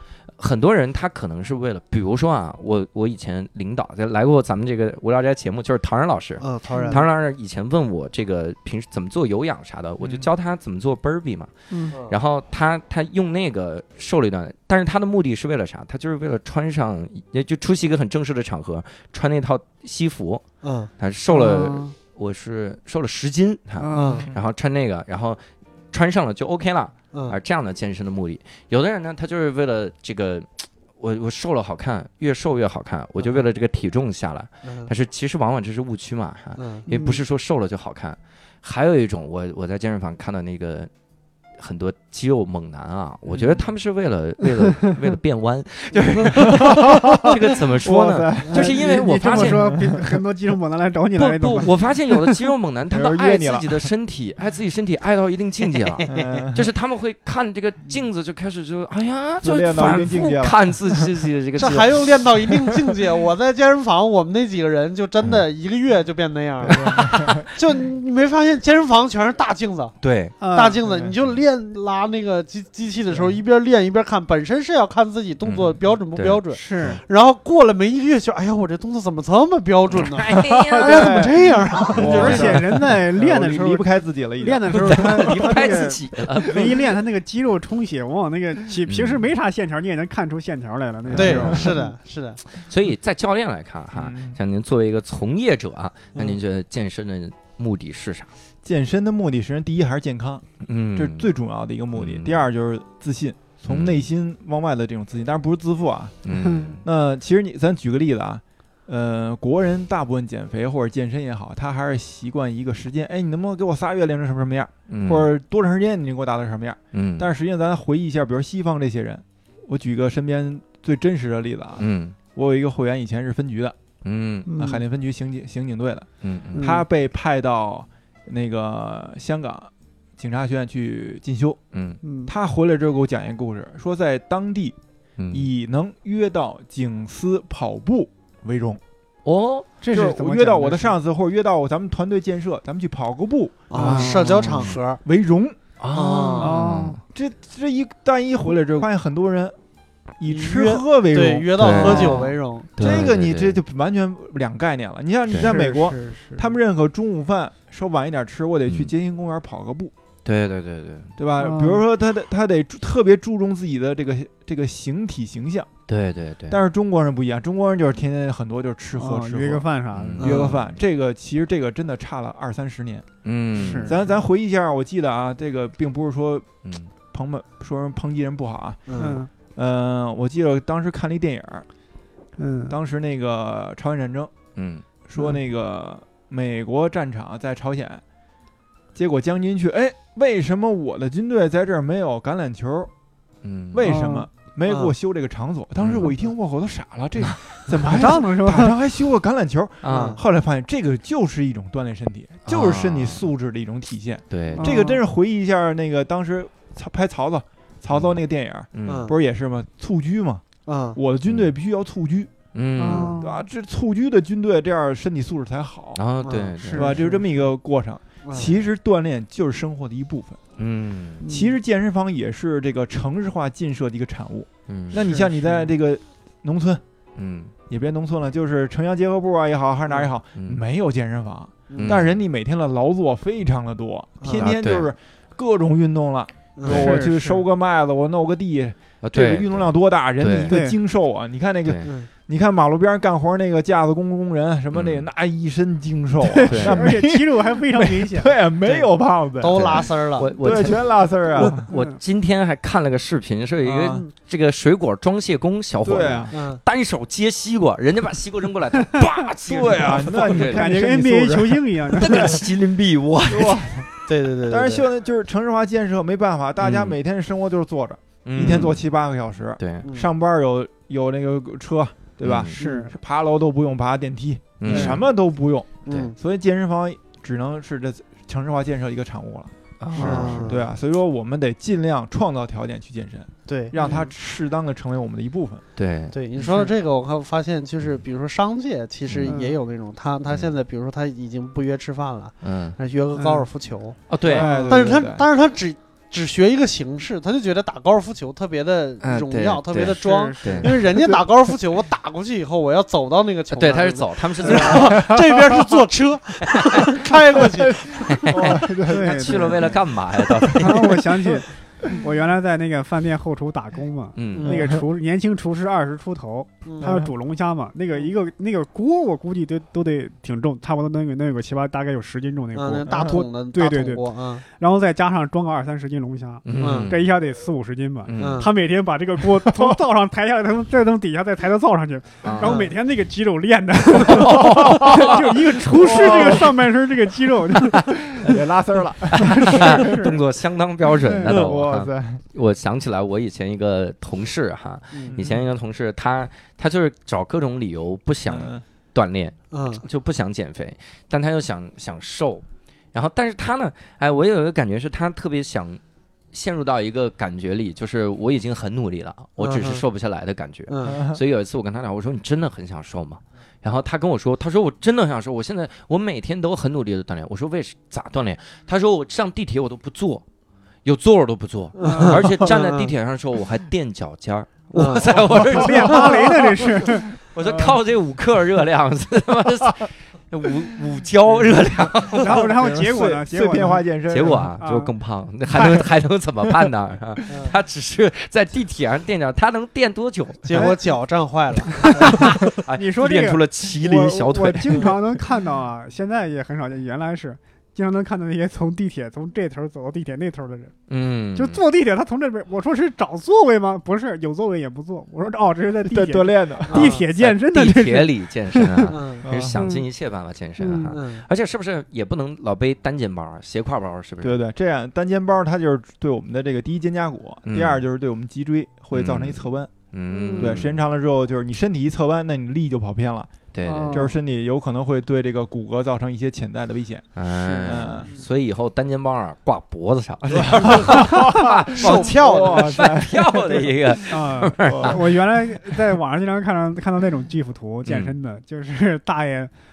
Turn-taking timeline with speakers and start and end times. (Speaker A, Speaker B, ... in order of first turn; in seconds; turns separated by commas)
Speaker A: 0.4-20.4, Speaker B: 6.4-7.0, Speaker C: 6.8-7.0, Speaker D: 10.0-10.3, Speaker C: 11.7-12.0, Speaker B: 20.6-20.9, Speaker A: 21.0-40.9, Speaker C: 21.3-21.9, Speaker C: 23.8-24.3, Speaker B: 23.9-24.3, Speaker B: 27.1-27.4, Speaker B: 34.6-34.9, Speaker B: 36.6-36.9, Speaker C: 36.9-37.2, Speaker A: 41.6-49.8, Speaker D: 46.4-50.2, Speaker C: 48.5-52.3, Speaker A: 51.1-62.2, Speaker D: 52.9-53.9, Speaker B: 56.0-56.5, Speaker D: 56.1-56.7, Speaker D: 59.4-61.0, Speaker B: 61.6-82.7, Speaker D: 66.6-67.5, Speaker A: 70.0-70.4, Speaker C: 70.4-70.8, Speaker D: 70.9-71.2, Speaker A: 75.4-76.4, Speaker C: 76.5-77.0, Speaker A: 79.9-81.2, Speaker D: 80.3-81.3, Speaker D: 81.9-85.8, Speaker C: 81.9-91.9, Speaker A: 82.0-82.4, Speaker A: 84.8-86.9, Speaker A: 88.9-89.2, Speaker D: 91.1-91.7, Speaker B: 91.1-92.4, Speaker A: 92.7-98.3, Speaker D: 93.9-94.4, Speaker D: 98.6-106.2, Speaker A: 100.6-101.3, Speaker A: 101.9-102.5, Speaker A: 103.7-104.0, Speaker A: 106.2-106.8, Speaker D: 106.8-123.8, Speaker A: 114.9-115.3, Speaker A: 116.9-117.3, Speaker A: 121.8-122.2, Speaker A: 124.0-124.5, Speaker C: 124.5-124.8, Speaker D: 124.5-131.6, Speaker A: 126.2-126.6, Speaker C: 126.5-126.8, Speaker A: 131.7-132.0, Speaker C: 132.0-132.3, Speaker D: 132.3-134.8, Speaker A: 135.2-135.5, Speaker D: 135.3-138.8, Speaker A: 139.2-139.7, Speaker C: 139.8-141.0, Speaker D: 139.9-145.6, Speaker B: 143.7-145.0, Speaker A: 143.7-144.8, Speaker C: 143.8-144.1, Speaker A: 145.8-147.0, Speaker B: 146.0-146.5, Speaker C: 146.4-147.0, Speaker D: 147.1-149.6, Speaker D: 150.2-152.2, Speaker B: 150.2-153.0, Speaker A: 151.6-153.6, Speaker C: 151.8-152.2, Speaker D: 152.8-159.9, Speaker A: 155.3-155.6, Speaker C: 155.4-156.5, Speaker A: 160.2-161.2, Speaker D: 161.2-165.7, Speaker C: 161.4-161.8, Speaker A: 165.9-166.6, Speaker D: 166.5-173.1, Speaker C: 169.0-170.2, Speaker A: 169.9-170.6, Speaker B: 170.2-170.6, Speaker A: 173.2-174.0, Speaker C: 173.6-174.0, Speaker D: 173.8-176.5, Speaker A: 176.6-176.9, Speaker D: 177.1-181.7, Speaker B: 178.9-179.2, Speaker C: 179.0-179.3, Speaker C: 182.4-182.8, Speaker D: 182.7-184.3, Speaker A: 184.6-184.8, Speaker D: 185.1-188.0, Speaker D: 188.9-192.9, Speaker A: 193.4-193.9, Speaker D: 193.7-210.4, Speaker C: 193.8-194.3, Speaker B: 194.7-194.9, Speaker A: 195.8-196.2, Speaker A: 197.2-197.6, Speaker C: 197.8-198.8, Speaker A: 199.8-200.2, Speaker B: 199.9-200.2, Speaker A: 202.5-203.3, Speaker A: 204.3-204.8, Speaker C: 204.6-205.0, Speaker A: 208.7-209.1, Speaker B: 208.9-209.2, Speaker B: 210.7-211.0, Speaker D: 210.9-212.3, Speaker A: 212.5-213.2, Speaker C: 212.8-213.4, Speaker D: 213.0-216.0, Speaker A: 215.9-217.1, Speaker B: 216.2-216.6, Speaker C: 216.6-217.2, Speaker D: 216.7-220.4, Speaker B: 218.2-218.6, Speaker A: 220.6-221.2, Speaker C: 221.2-221.6, Speaker D: 221.2-226.8, Speaker A: 224.7-225.1, Speaker C: 224.9-225.5, Speaker A: 227.2-227.5, Speaker D: 227.7-251.7, Speaker A: 230.3-230.6, Speaker B: 231.7-232.0, Speaker A: 231.8-232.2, Speaker B: 234.2-234.5, Speaker A: 234.3-234.9, Speaker B: 236.6-236.9, Speaker C: 236.7-237.4, Speaker A: 239.0-240.6, Speaker C: 240.5-240.8, Speaker A: 241.7-241.9, Speaker A: 244.7-245.1, Speaker C: 246.2-248.3, Speaker A: 246.4-246.9, Speaker B: 249.4-250.3, Speaker A: 249.5-260.8, Speaker C: 251.7-251.9, Speaker D: 253.6-254.0, Speaker D: 255.8-256.3, Speaker B: 256.3-256.6, Speaker D: 259.5-262.4, Speaker C: 260.2-262.5, Speaker A: 261.9-263.7, Speaker D: 263.3-263.9, Speaker B: 264.1-264.9, Speaker D: 264.5-285.6, Speaker A: 266.6-267.0, Speaker A: 268.2-268.8, Speaker A: 269.6-269.9, Speaker A: 272.2-272.6, Speaker C: 272.6-272.9, Speaker A: 274.6-275.0, Speaker C: 274.6-275.0, Speaker B: 275.9-276.1, Speaker A: 279.8-280.5, Speaker B: 280.0-280.7, Speaker B: 283.5-284.1, Speaker C: 283.8-284.1, Speaker A: 285.8-286.2, Speaker B: 286.1-307.9, Speaker A: 289.1-289.3, Speaker C: 289.2-289.6, Speaker A: 292.4-292.8, Speaker A: 294.1-294.5, Speaker D: 294.2-295.3, Speaker C: 294.4-295.0, Speaker A: 299.0-300.8, Speaker C: 299.9-301.2, Speaker A: 303.6-305.1, Speaker C: 304.4-304.8, Speaker D: 304.9-305.6, Speaker A: 306.4-307.1, Speaker D: 307.4-309.7, Speaker A: 307.9-311.0, Speaker C: 308.8-309.8, Speaker D: 310.4-311.3, Speaker C: 310.5-338.3, Speaker A: 314.1-314.6, Speaker B: 314.4-314.7, Speaker D: 314.5-314.8, Speaker B: 316.6-317.0, Speaker D: 316.8-317.1, Speaker B: 322.5-324.4, Speaker D: 322.9-323.2, Speaker A: 326.4-327.1, Speaker B: 326.6-326.9, Speaker A: 328.1-328.5, Speaker B: 328.2-328.5, Speaker D: 329.4-329.8, Speaker A: 332.2-332.6, Speaker B: 332.4-332.8, Speaker A: 333.9-336.5, Speaker D: 334.2-336.6, Speaker D: 337.7-340.2, Speaker A: 339.1-355.8, Speaker C: 339.2-340.2, Speaker C: 341.0-341.4, Speaker D: 341.2-342.2, Speaker B: 344.9-345.2, Speaker D: 345.1-345.4, Speaker D: 348.3-348.6, Speaker B: 349.5-349.8, Speaker A: 356.3-370.2, Speaker B: 359.4-359.8, Speaker B: 360.7-361.0, Speaker D: 360.9-361.2, Speaker A: 370.9-376.1, Speaker B: 371.8-372.9, Speaker C: 371.8-372.2, Speaker B: 374.7-375.2, Speaker D: 375.1-377.8, Speaker C: 375.4-377.1, Speaker A: 377.3-382.6, Speaker C: 382.2-383.9, Speaker D: 382.2-384.5, Speaker A: 384.1-390.7, Speaker C: 384.5-384.9, Speaker C: 385.6-385.8, Speaker B: 387.3-387.5, Speaker B: 390.5-392.2, Speaker C: 391.7-400.7, Speaker A: 391.8-394.9, Speaker A: 400.9-401.6, Speaker C: 401.3-409.0, Speaker D: 405.9-407.0, Speaker B: 406.7-407.1, Speaker A: 406.7-414.4, Speaker B: 408.9-409.3, Speaker D: 409.2-409.6, Speaker C: 409.6-409.9, Speaker C: 410.6-410.9, Speaker B: 410.9-411.3, Speaker D: 414.2-419.7, Speaker A: 417.5-417.8, Speaker A: 418.9-420.8, Speaker C: 420.1-420.6, Speaker D: 420.4-423.3, Speaker A: 423.5-424.1, Speaker C: 423.7-424.1, Speaker D: 423.9-428.1, Speaker A: 427.1-435.2, Speaker B: 427.7-428.2, Speaker D: 430.3-434.0, Speaker B: 431.8-432.9, Speaker C: 434.1-439.5, Speaker D: 434.6-435.0, Speaker A: 437.9-438.1